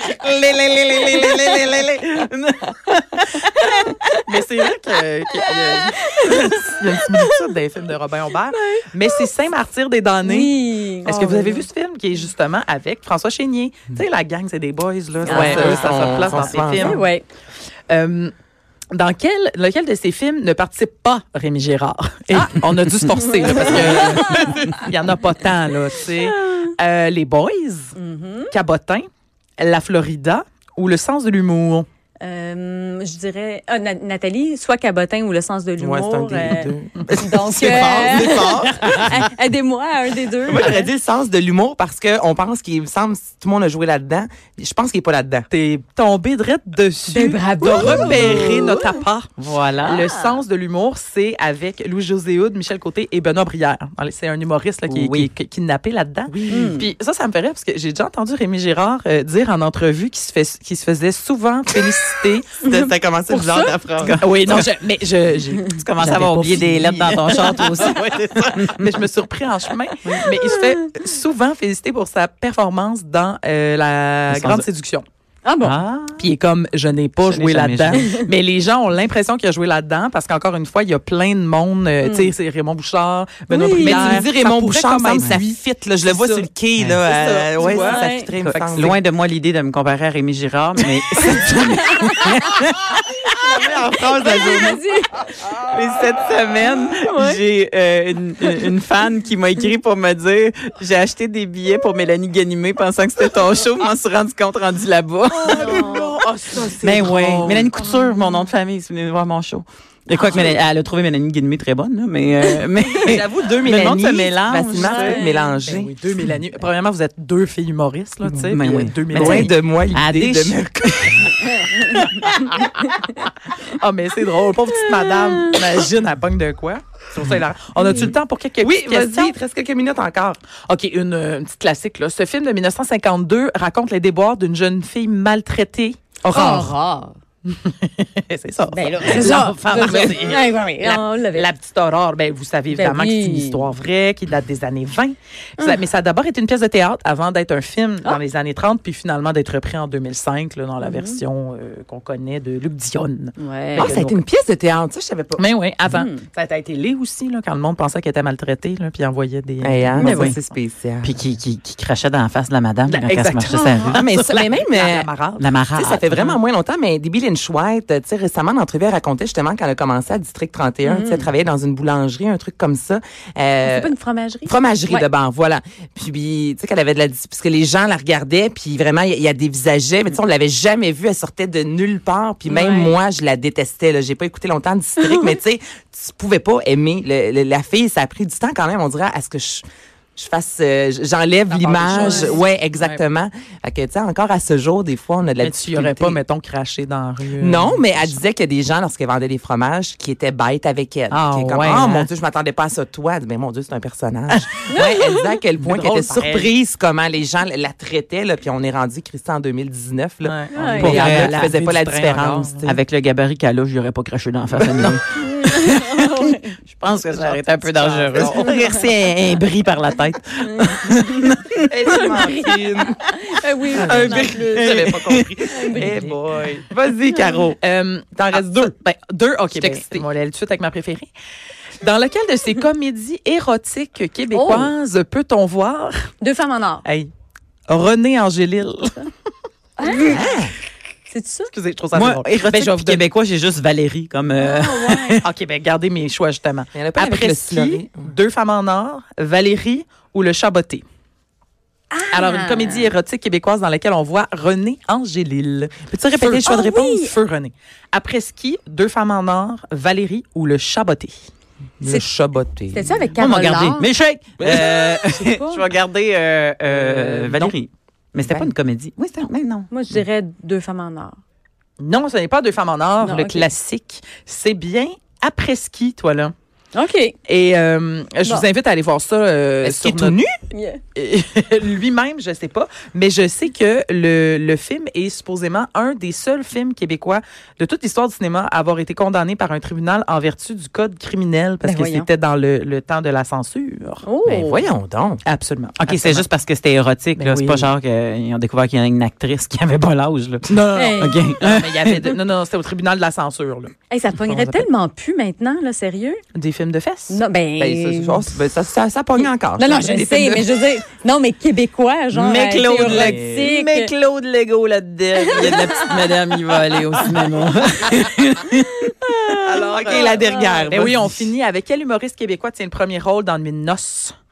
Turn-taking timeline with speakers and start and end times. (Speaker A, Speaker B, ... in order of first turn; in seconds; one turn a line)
Speaker A: 0.1-4.4
Speaker B: 3.5-4.2
Speaker C: 4.2-17.1
Speaker B: 5.3-7.5
Speaker B: 8.5-9.3
Speaker B: 10.2-11.7
Speaker B: 15.2-16.0
Speaker D: 15.2-16.9
Speaker A: 15.7-16.5
Speaker B: 16.8-17.2
Speaker C: 17.9-18.3
Speaker C: 18.9-27.9
Speaker B: 23.1-24.8
Speaker A: 24.3-24.6
Speaker B: 27.9-28.5
Speaker C: 28.5-29.1
Speaker C: 29.6-31.9
Speaker B: 32.2-40.9
Speaker D: 35.8-38.9
Speaker C: 38.6-39.1
Speaker D: 40.4-45.5
Speaker C: 45.5-49.3
Speaker B: 47.1-48.9
Speaker A: 47.7-48.8
Speaker A: 49.4-50.1
Speaker C: 49.8-62.6
Speaker B: 50.1-50.4
Speaker A: 54.9-55.3
Speaker A: 56.3-56.8
Speaker B: 56.5-56.9
Speaker B: 62.6-63.8
Speaker D: 62.6-64.5
Speaker A: 64.0-64.7
Speaker C: 64.2-68.0
Speaker A: 65.7-69.0
Speaker D: 66.1-68.5
Speaker C: 68.8-75.0
Speaker A: 70.0-70.3
Speaker A: 74.3-74.6
Speaker B: 75.4-75.8
Speaker A: 75.6-76.3
Speaker C: 76.2-86.5
Speaker A: 77.2-78.2
Speaker B: 77.9-78.3
Speaker B: 82.0-82.3
Speaker B: 83.5-84.1
Speaker D: 83.8-89.0
Speaker A: 86.8-87.0
Speaker C: 87.0-88.6
Speaker B: 87.6-88.3
Speaker A: 88.6-93.4
Speaker D: 93.3-94.8
Speaker B: 94.0-95.3
Speaker A: 95.6-105.8
Speaker B: 97.1-97.4
Speaker D: 105.3-107.7
Speaker B: 105.6-106.0
Speaker C: 105.6-107.7
Speaker A: 106.8-115.3
Speaker D: 113.0-115.9
Speaker B: 114.7-115.6
Speaker C: 115.6-119.5
Speaker A: 118.4-121.2
Speaker D: 119.1-121.7
Speaker B: 121.6-123.1
Speaker A: 122.0-122.5
Speaker C: 123.2-129.4
Speaker B: 124.8-125.6
Speaker B: 127.8-128.1
Speaker D: 128.6-130.4
Speaker C: 130.5-136.7
Speaker B: 136.3-137.2
Speaker C: 137.4-154.2
Speaker B: 138.7-141.5
Speaker A: 139.3-140.2
Speaker B: 142.7-143.7
Speaker B: 150.8-151.2
Speaker B: 153.4-153.9
Speaker D: 153.7-155.4
Speaker C: 155.4-160.3
Speaker B: 155.9-156.2
Speaker D: 159.6-161.1
Speaker B: 159.9-160.3
Speaker A: 160.0-160.3
Speaker A: 161.0-164.1
Speaker C: 162.9-165.5
Speaker B: 163.5-164.0
Speaker D: 163.8-165.1
Speaker A: 165.4-166.3
Speaker D: 165.7-173.9
Speaker B: 170.8-171.3
Speaker B: 173.6-175.1
Speaker D: 174.4-189.6
Speaker B: 182.4-182.9
Speaker B: 185.0-185.4
Speaker D: 190.2-196.2
Speaker C: 191.5-193.0
Speaker B: 191.9-192.4
Speaker C: 195.4-198.2
Speaker D: 197.4-212.8
Speaker C: 201.1-202.1
Speaker B: 204.7-205.4
Speaker C: 205.6-206.5
Speaker C: 210.2-212.6
Speaker B: 210.5-211.0
Speaker A: 210.8-211.5
Speaker A: 212.6-222.1
Speaker D: 214.6-215.0
Speaker B: 215.1-216.6
Speaker C: 217.1-218.5
Speaker D: 218.1-218.4
Speaker B: 220.4-221.3
Speaker D: 221.7-223.0
Speaker B: 221.9-224.8
Speaker C: 222.3-222.6
Speaker C: 223.7-226.2
Speaker D: 223.8-227.6
Speaker A: 224.0-225.9
Speaker B: 225.5-226.0
Speaker C: 227.6-231.1
Speaker D: 228.1-228.7
Speaker D: 229.5-230.0
Speaker C: 231.8-236.1
Speaker B: 234.3-234.7
Speaker B: 236.2-236.8
Speaker C: 236.8-237.1
Speaker C: 237.7-239.1
Speaker B: 239.8-240.2
Speaker D: 239.9-240.5
Speaker B: 241.1-241.5
Speaker C: 241.5-243.0
Speaker A: 241.9-245.2
Speaker B: 244.4-245.2
Speaker C: 245.2-250.8
Speaker D: 246.7-248.1
Speaker B: 251.9-252.9
Speaker C: 252.1-261.2
Speaker B: 256.2-257.1
Speaker D: 261.8-263.0
Speaker B: 262.7-263.9
Speaker A: 263.1-269.7
Speaker D: 264.4-264.9
Speaker B: 265.1-265.7
Speaker C: 266.7-267.6
Speaker C: 268.2-268.5
Speaker B: 269.7-271.2
Speaker C: 271.8-276.3
Speaker B: 273.0-273.5
Speaker B: 276.7-277.1
Speaker C: 277.2-280.3
Speaker D: 279.6-280.2
Speaker B: 280.5-280.8
Speaker C: 280.9-294.1
Speaker B: 291.6-292.1
Speaker B: 294.1-294.6
Speaker D: 294.2-295.2
Speaker C: 295.2-296.2
Speaker A: 295.8-302.1
Speaker C: 297.2-297.7
Speaker C: 300.5-304.7
Speaker B: 300.7-301.2
Speaker B: 303.9-306.2
Speaker C: 306.3-307.2
Speaker B: 307.1-308.4
Speaker D: 307.6-310.7
Speaker B: 309.2-313.9
Speaker A: 312.1-320.1
Speaker D: 312.8-313.5
Speaker B: 315.3-315.8
Speaker D: 319.4-321.1
Speaker C: 319.8-320.1
Speaker B: 320.2-320.7
Speaker C: 320.7-324.1
Speaker A: 320.8-321.1